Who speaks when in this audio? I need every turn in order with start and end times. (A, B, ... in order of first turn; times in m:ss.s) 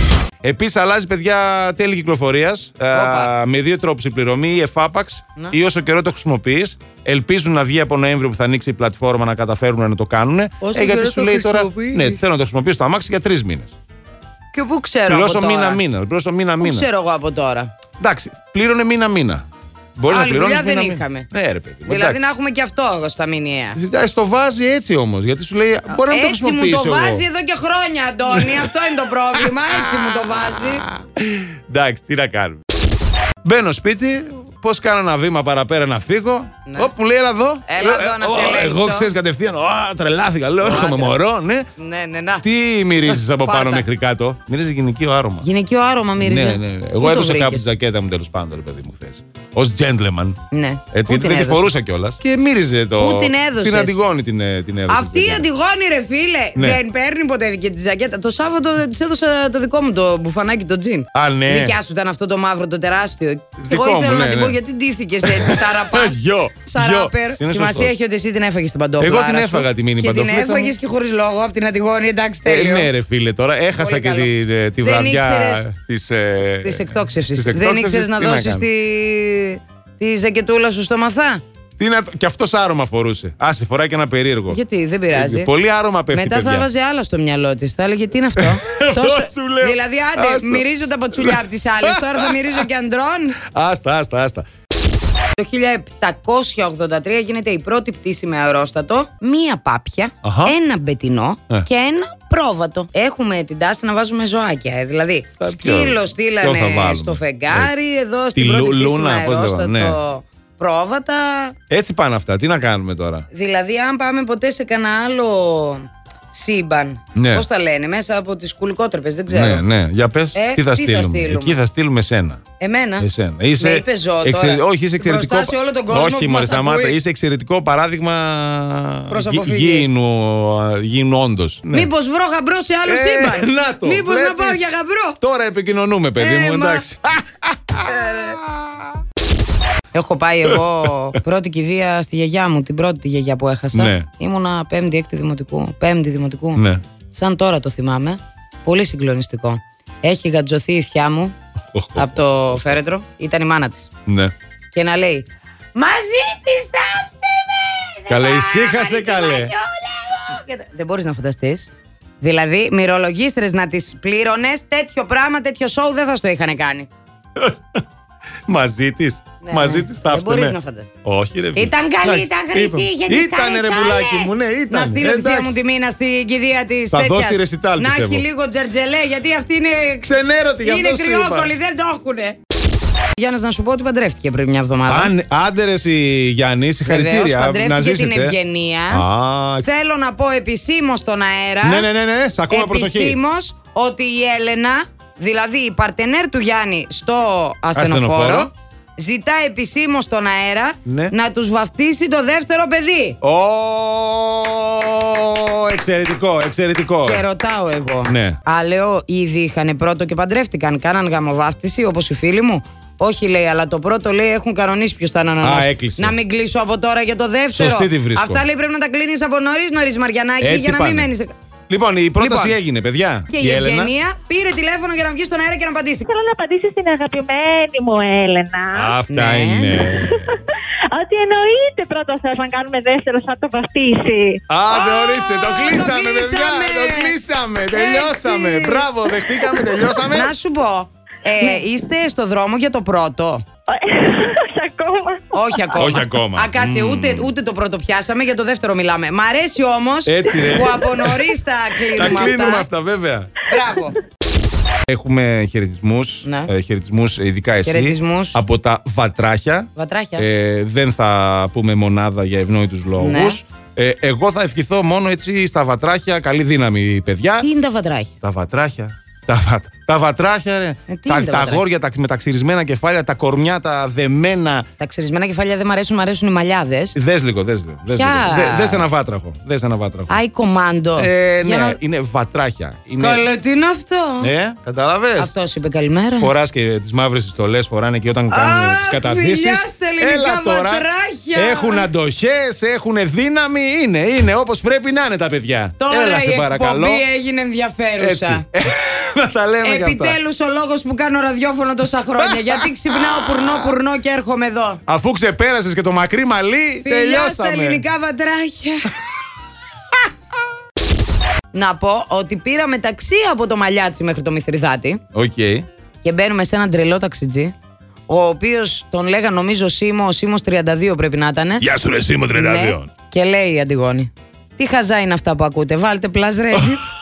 0:00.4-0:13.7 A
0:02.9-0:03.3 B
0:10.6-0:12.2 B
0:14.5-0:15.8 B
0:15.1-0:16.9 A
0:16.6-0:17.7 B
0:18.0-0:19.4 A
0:20.0-0:22.2 A
0:20.1-0:21.3 B
0:21.9-0:23.8 B
0:23.8-0:27.2 A
0:25.9-0:30.9 B
0:28.3-0:28.7 A
0:29.4-0:32.6 A
0:33.4-0:41.7 A
0:36.7-0:36.9 B
0:37.7-0:39.1 B
0:40.6-0:41.2 B
0:41.8-0:42.4 B
0:42.4-0:45.5 A
0:43.3-0:43.9 B
0:45.4-0:47.6 B
0:46.2-0:50.4 A
0:50.5-0:51.7 B
0:50.9-0:55.5 A
0:53.0-0:54.0 B
0:54.9-1:12.9 B
0:56.6-0:56.8 A
1:01.1-1:01.8 A
1:03.6-1:04.6 A
1:05.2-1:07.9 A
1:09.0-1:10.8 A
1:12.5-1:18.7 A
1:13.8-1:15.7 B
1:16.6-1:21.4 B
1:21.8-1:24.6 A
1:24.5-1:25.5 B
1:25.1-1:26.7 A
1:26.1-1:33.4 B
1:28.4-1:32.6 A
1:33.4-1:34.4 A
1:35.4-1:51.6 B
1:40.2-1:40.5 A
1:45.4-1:47.7 A
1:48.4-1:50.0 A
1:51.7-1:53.3 A
1:53.3-1:59.6 B
1:57.2-1:57.4 A
1:59.3-2:02.4 A
2:00.3-2:01.6 B
2:02.6-2:03.1 B
2:03.0-2:11.9 A
2:03.6-2:07.0 B
2:09.1-2:09.9 B
2:11.7-2:15.2 B
2:12.9-2:14.6 A
2:15.2-2:18.9 A
2:16.2-2:16.8 B
2:17.9-2:18.4 B
2:19.9-2:31.4 B
2:23.7-2:24.1 A
2:26.6-2:26.8 A
2:31.7-2:32.8 A
2:32.0-2:33.9 B
2:34.1-2:34.3 A
2:34.7-2:46.9 B
2:38.1-2:39.5 A
2:47.4-2:47.8 A
2:48.5-2:55.6 A
2:49.4-2:50.9 B
2:51.6-3:02.4 B
2:56.9-2:58.2 A
3:00.0-3:01.5 A
3:03.2-3:05.1 B
3:04.9-3:08.4 A
3:06.9-3:09.0 B
3:08.9-3:09.7 A
3:09.6-3:11.9 B
3:11.6-3:13.2 A
3:12.5-3:23.2 B
3:17.8-3:18.5 A
3:20.8-3:21.1 A
3:23.2-3:27.2 A
3:27.0-3:41.3 B
3:28.1-3:28.4 A
3:35.4-3:36.2 A
3:37.5-3:38.4 A
3:40.4-3:41.1 A
3:41.7-3:43.9 A
3:42.2-3:42.6 B
3:43.3-3:46.1 B
3:46.1-3:49.0 C
3:48.7-3:50.3 A
3:49.1-3:49.8 B
3:49.9-3:54.4 C
3:54.5-4:00.3 A
3:54.7-3:57.2 B
3:57.8-3:58.8 B
4:00.1-4:03.4 B
4:03.7-4:05.8 C
4:05.3-4:12.7 B
4:05.8-4:07.3 A
4:10.1-4:11.2 A
4:11.9-4:13.3 A
4:13.5-4:14.0 B
4:14.9-4:27.5 A
4:16.2-4:16.5 B
4:17.6-4:18.4 B
4:19.8-4:20.2 B
4:23.0-4:23.4 B
4:27.4-4:28.1 B
4:28.2-4:34.7 A
4:30.9-4:31.6 B
4:34.8-4:37.0 B
4:37.0-4:40.2 A
4:37.9-4:38.9 B
4:40.1-4:41.8 B
4:41.0-4:43.3 A
4:43.0-4:44.3 B
4:44.2-4:45.3 A
4:45.2-4:46.3 B
4:46.2-4:57.0 A
4:48.3-4:51.9 B
4:55.8-4:58.4 B
4:58.0-5:00.2 A
4:59.6-5:04.8 B
5:02.2-5:03.7 A
5:04.9-5:07.8 A
5:06.8-5:08.9 B
5:11.5-5:15.0 B
5:15.1-5:15.7 A
5:16.0-5:17.5 B
5:18.1-5:21.6 B
5:21.6-5:22.9 A
5:22.3-5:26.8 B